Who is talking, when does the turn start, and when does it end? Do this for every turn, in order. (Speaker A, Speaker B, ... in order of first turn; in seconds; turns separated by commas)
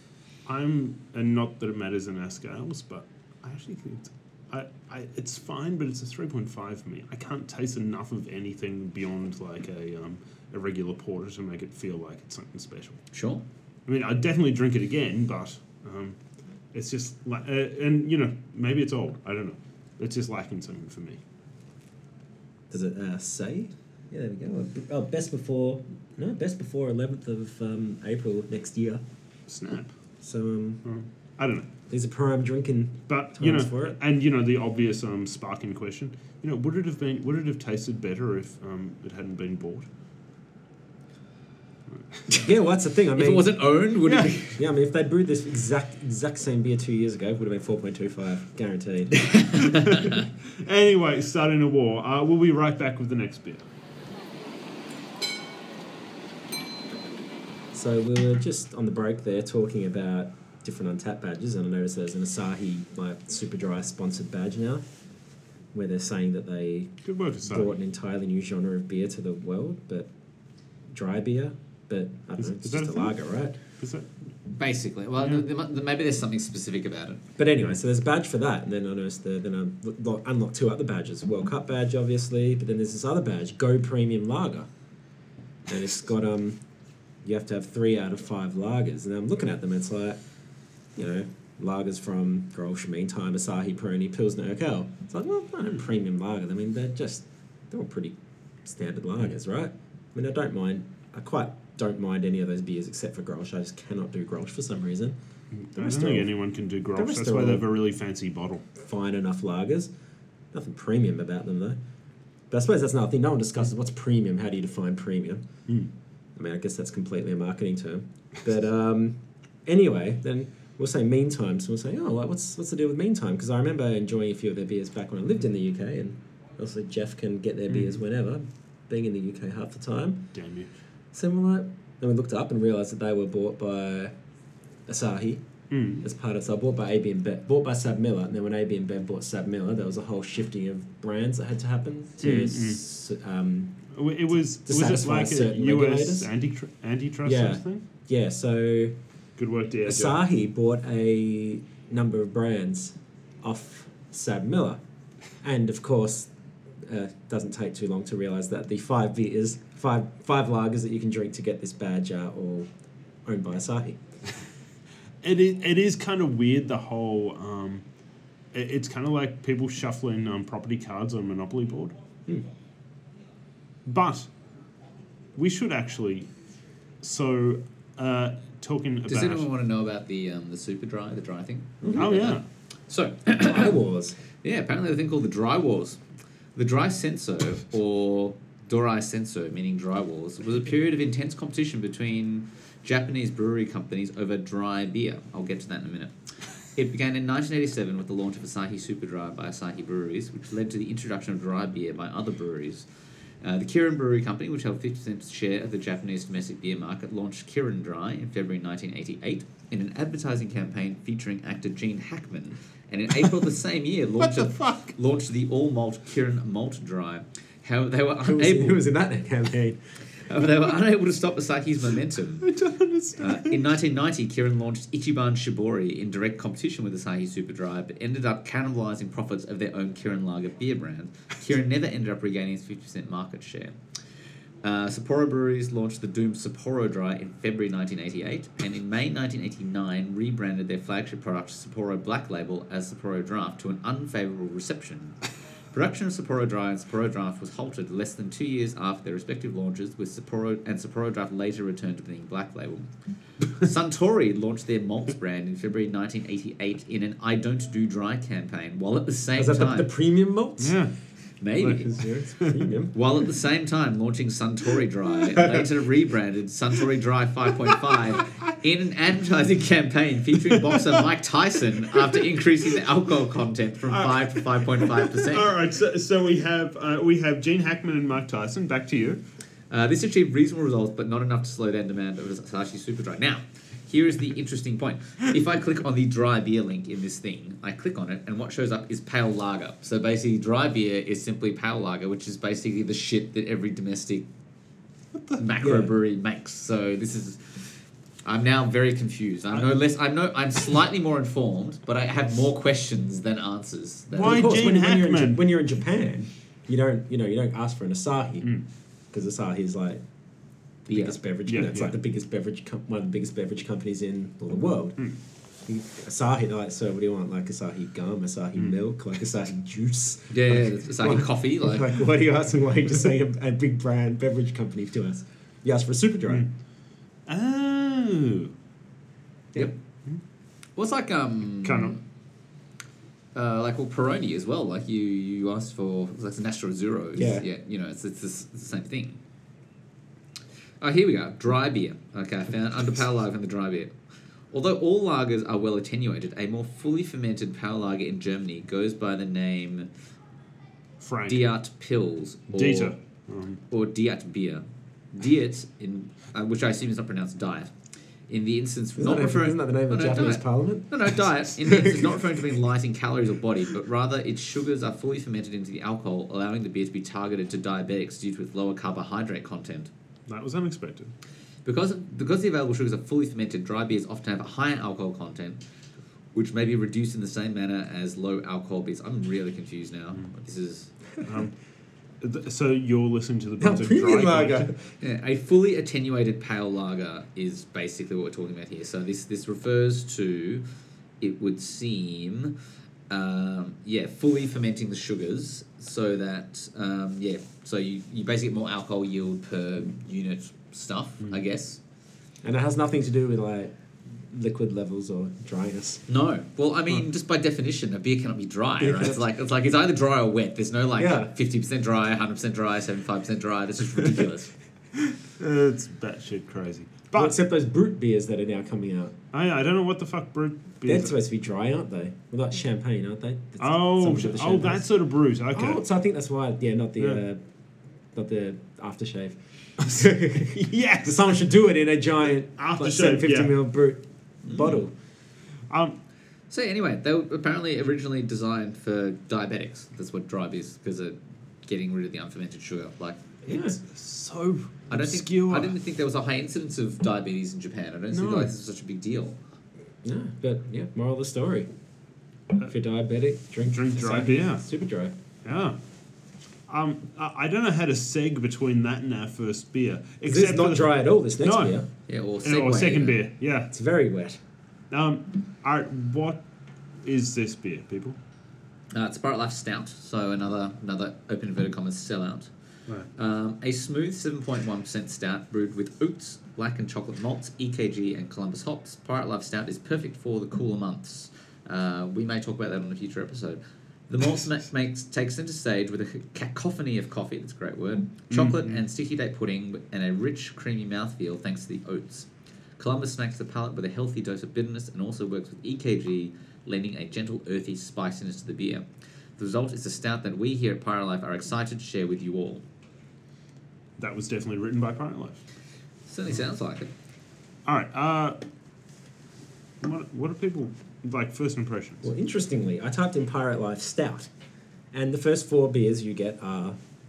Speaker A: 0.5-13.0, Speaker B: 13.1-13.4, Speaker A: 13.9-16.2, Speaker A: 16.7-21.2, Speaker C: 22.7-29.0, Speaker A: 29.5-29.9, Speaker C: 30.2-30.8, Speaker A: 30.9-31.7, Speaker C: 31.9-34.0, Speaker A: 33.1-39.9, Speaker A: 41.9-42.2, Speaker C: 42.3-43.7, Speaker B: 43.1-44.5, Speaker A: 44.1-44.4, Speaker C: 44.4-49.5, Speaker B: 49.3-50.2, Speaker A: 49.6-53.6, Speaker C: 57.7-64.8, Speaker C: 65.7-70.1, Speaker A: 67.0-67.7, Speaker C: 70.9-73.6, Speaker A: 72.4-73.2, Speaker A: 73.8-74.1, Speaker B: 74.5-77.2, Speaker C: 77.4-84.7, Speaker C: 85.7-86.6, Speaker C: 87.2-90.2, Speaker C: 91.0-105.2, Speaker A: 105.6-108.7, Speaker C: 105.8-106.3, Speaker C: 106.9-107.7, Speaker C: 108.8-109.9, Speaker C: 110.5-111.8, Speaker C: 112.5-115.4, Speaker C: 116.4-130.3, Speaker A: 127.7-128.0, Speaker A: 130.3-130.7, Speaker C: 131.1-134.1, Speaker C: 134.9-135.4, Speaker A: 135.7-136.1, Speaker C: 136.0-143.8, Speaker A: 142.2-142.8, Speaker A: 143.9-147.8, Speaker C: 144.7-146.3, Speaker C: 147.2-149.0, Speaker A: 149.4-150.2, Speaker C: 149.8-154.8, Speaker C: 155.4-162.7, Speaker C: 163.2-164.0, Speaker A: 165.2-167.8, Speaker A: 168.5-172.0, Speaker A: 173.9-174.3, Speaker A: 175.4-176.3, Speaker A: 177.0-179.5, Speaker B: 179.1-183.8, Speaker C: 181.8-182.1, Speaker A: 181.9-182.4, Speaker C: 183.3-184.2, Speaker B: 184.4-186.0, Speaker B: 186.6-196.1, Speaker B: 196.8-202.9, Speaker B: 203.4-218.8, Speaker A: 214.2-214.9, Speaker C: 218.2-219.8, Speaker B: 220.2-222.5, Speaker A: 222.4-223.7, Speaker B: 223.2-233.8, Speaker B: 234.6-245.2, Speaker B: 245.7-252.9, Speaker B: 253.5-259.9, Speaker C: 259.4-260.8, Speaker A: 260.6-260.9, Speaker B: 261.4-261.9, Speaker A: 261.6-262.7, Speaker C: 261.6-263.0, Speaker B: 262.9-275.5, Speaker C: 265.4-265.7, Speaker A: 267.9-268.4, Speaker A: 270.5-271.0, Speaker A: 273.9-279.2, Speaker B: 279.7-294.3, Speaker A: 295.1-295.4, Speaker B: 295.4-297.7, Speaker C: 295.6-295.9, Speaker B: 298.2-304.5, Speaker A: 304.1-305.4, Speaker C: 304.2-308.5, Speaker C: 309.1-310.0, Speaker C: 310.9-315.1, Speaker A: 311.5-311.9, Speaker C: 315.7-326.5, Speaker B: 320.3-322.0, Speaker A: 327.3-328.5, Speaker B: 330.8-332.0, Speaker A: 331.6-332.0, Speaker B: 333.4-339.2, Speaker C: 337.2-337.5, Speaker B: 340.8-343.9, Speaker B: 344.5-349.9, Speaker A: 351.0-351.5, Speaker B: 351.3-352.9, Speaker A: 352.5-353.6, Speaker B: 353.7-357.7, Speaker B: 358.3-369.9, Speaker C: 359.0-361.1, Speaker C: 361.6-362.2, Speaker A: 370.3-371.1, Speaker B: 371.7-375.6, Speaker B: 376.3-380.9, Speaker A: 381.2-381.5, Speaker A: 382.2-384.7, Speaker C: 383.6-384.8, Speaker B: 385.0-390.6, Speaker B: 391.2-392.6, Speaker B: 393.1-401.8, Speaker C: 402.4-406.0, Speaker B: 406.1-414.5, Speaker C: 408.8-409.1, Speaker C: 411.0-411.3, Speaker A: 415.1-417.4, Speaker C: 417.1-419.1, Speaker A: 419.3-421.1, Speaker C: 420.9-424.9, Speaker A: 423.6-425.8, Speaker C: 425.5-427.4, Speaker C: 428.1-434.9, Speaker A: 429.8-431.4, Speaker A: 432.6-433.6, Speaker B: 434.5-434.8, Speaker A: 435.7-436.0, Speaker B: 436.5-443.2, Speaker A: 443.4-445.7, Speaker C: 443.5-443.8, Speaker B: 444.9-449.4, Speaker A: 448.1-448.5, Speaker C: 450.0-451.7, Speaker C: 452.7-455.1, Speaker A: 453.7-454.6, Speaker A: 455.4-455.8, Speaker A: 456.7-461.8, Speaker C: 460.3-461.9, Speaker B: 462.1-463.2, Speaker A: 462.4-463.7, Speaker C: 463.7-464.4, Speaker A: 464.9-466.4, Speaker A: 467.0-468.2, Speaker B: 468.9-472.5, Speaker B: 473.1-498.9, Speaker A: 488.3-488.8, Speaker B: 499.4-502.6, Speaker A: 504.0-505.4, Speaker B: 506.1-506.9, Speaker A: 507.7-508.4, Speaker A: 509.8-512.1, Speaker C: 512.0-514.3, Speaker C: 514.9-516.8